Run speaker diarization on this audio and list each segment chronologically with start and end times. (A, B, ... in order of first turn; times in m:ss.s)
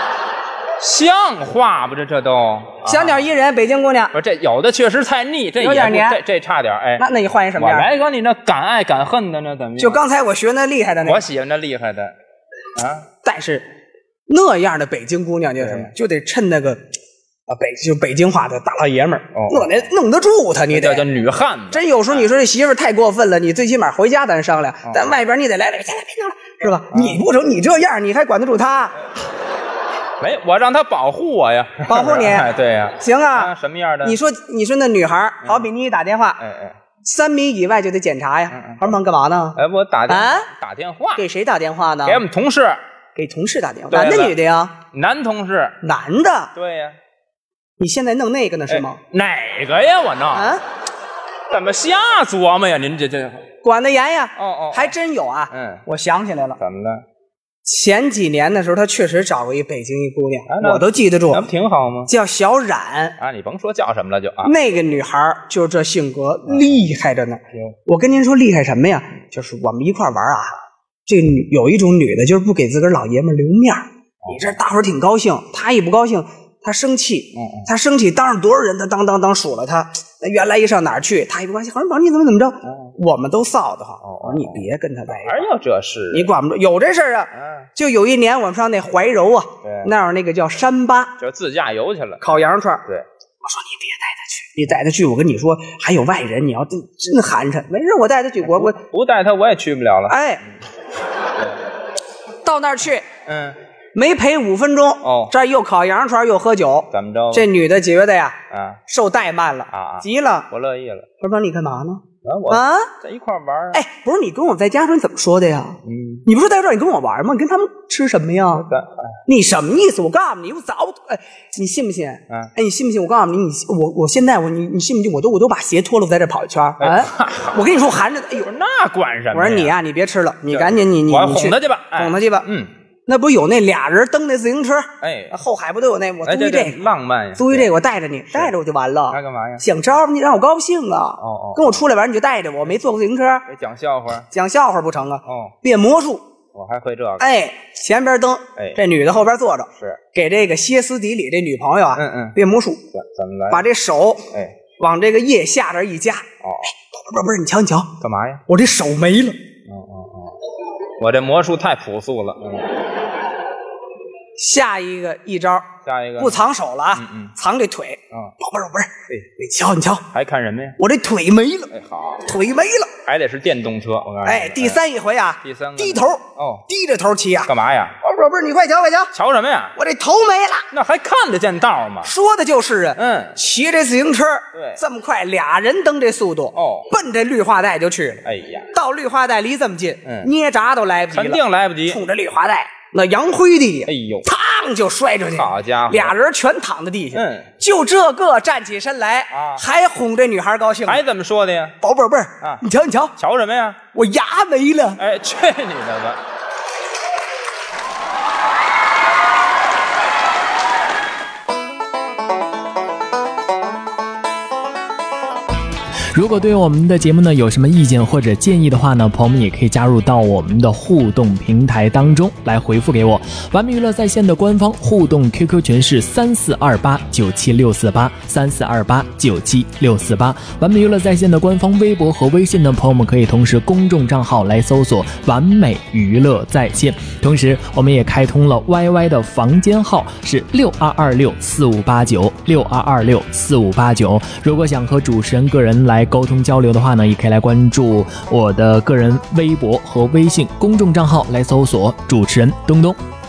0:00.8-0:03.3 A
0:02.8-0:04.1 B
0:04.1-0:10.0 A
0:05.6-0:06.2 B
0:07.0-0:07.9 B
0:09.8-0:11.2 B
0:11.0-0:12.1 A
0:12.8-0:13.1 A
0:13.2-0:13.7 B
0:14.3-0:16.8 B
0:15.6-0:15.9 A
0:17.5-0:21.0 B
0:19.4-0:19.8 A
0:20.7-0:22.3 A
0:21.7-0:29.0 B
0:26.9-0:27.2 A
0:30.2-0:34.2 A
0:31.9-0:33.5 B
0:34.0-0:36.4 B
0:36.4-0:36.8 A
0:37.0-0:40.5 B
0:38.5-0:38.9 A
0:39.6-0:41.2 A
0:41.2-0:42.2 B
0:42.0-0:42.8 A
0:43.2-0:44.7 B
0:43.9-0:44.4 A
0:44.9-0:45.8 A
0:45.8-0:46.5 B
0:46.5-0:46.9 A
0:47.8-0:49.0 B
0:48.7-0:50.6 A
0:50.3-0:50.6 B
0:51.5-0:53.4 A
0:53.6-0:56.6 B
0:54.4-0:54.9 A
0:55.5-0:55.8 A
0:56.6-0:57.0 A
0:57.6-1:01.4 B
1:00.5-1:02.1 A
1:02.1-1:03.1 B
1:03.2-1:04.5 A
1:04.4-1:25.4 B
1:06.5-1:06.8 A
1:14.2-1:14.5 A
1:17.4-1:17.6 A
1:24.0-1:26.3 A
1:26.1-1:31.1 B
1:29.6-1:29.9 A
1:31.2-1:33.0 A
1:32.2-1:32.8 B
1:33.4-1:38.8 B
1:38.4-1:40.2 A
1:40.1-1:40.4 B
1:42.4-1:43.1 B
1:43.2-1:43.6 A
1:43.9-1:50.5 B
1:45.0-1:45.3 A
1:46.9-1:47.5 A
1:48.5-1:48.8 A
1:49.7-1:51.1 A
1:51.2-1:52.9 B
1:52.2-1:53.8 A
1:53.7-1:58.7 B
1:55.9-1:56.2 A
1:58.6-1:59.2 A
1:59.3-2:08.5 B
2:06.8-2:07.6 A
2:08.4-2:09.7 A
2:09.3-2:12.5 B
2:10.5-2:12.7 A
2:13.1-2:16.8 B
2:15.0-2:15.4 A
2:16.2-2:17.7 A
2:17.4-2:23.5 B
2:19.1-2:19.6 A
2:21.2-2:21.8 A
2:23.5-2:24.3 A
2:24.3-2:26.2 B
2:25.3-2:25.5 A
2:26.5-2:27.3 A
2:27.2-2:32.9 B
2:32.0-2:32.4 A
2:32.9-2:33.6 A
2:33.5-2:37.9 B
2:38.0-2:38.4 A
2:38.5-2:39.4 B
2:39.7-2:40.4 A
2:41.0-2:42.7 A
2:44.4-2:50.1 B
2:45.8-2:46.4 A
2:47.0-2:47.3 A
2:50.1-2:50.8 A
2:50.8-2:51.7 B
2:51.7-2:52.2 A
2:52.2-2:52.9 B
2:53.1-2:54.8 A
2:54.2-2:59.1 B
2:55.4-2:56.6 A
2:57.5-2:57.9 A
2:59.1-2:59.8 A
2:59.8-3:00.7 B
3:00.7-3:02.1 A
3:02.0-3:21.0 B
3:03.0-3:03.4 A
3:04.5-3:04.8 A
3:06.6-3:06.9 A
3:08.2-3:08.7 A
3:11.1-3:12.0 A
3:13.9-3:14.2 A
3:15.3-3:16.1 A
3:17.1-3:17.5 A
3:19.3-3:19.6 A
3:20.9-3:21.8 A
3:21.8-3:23.1 B
3:23.2-3:23.8 A
3:23.9-3:25.0 B
3:25.0-3:26.2 A
3:36.1-4:13.0 C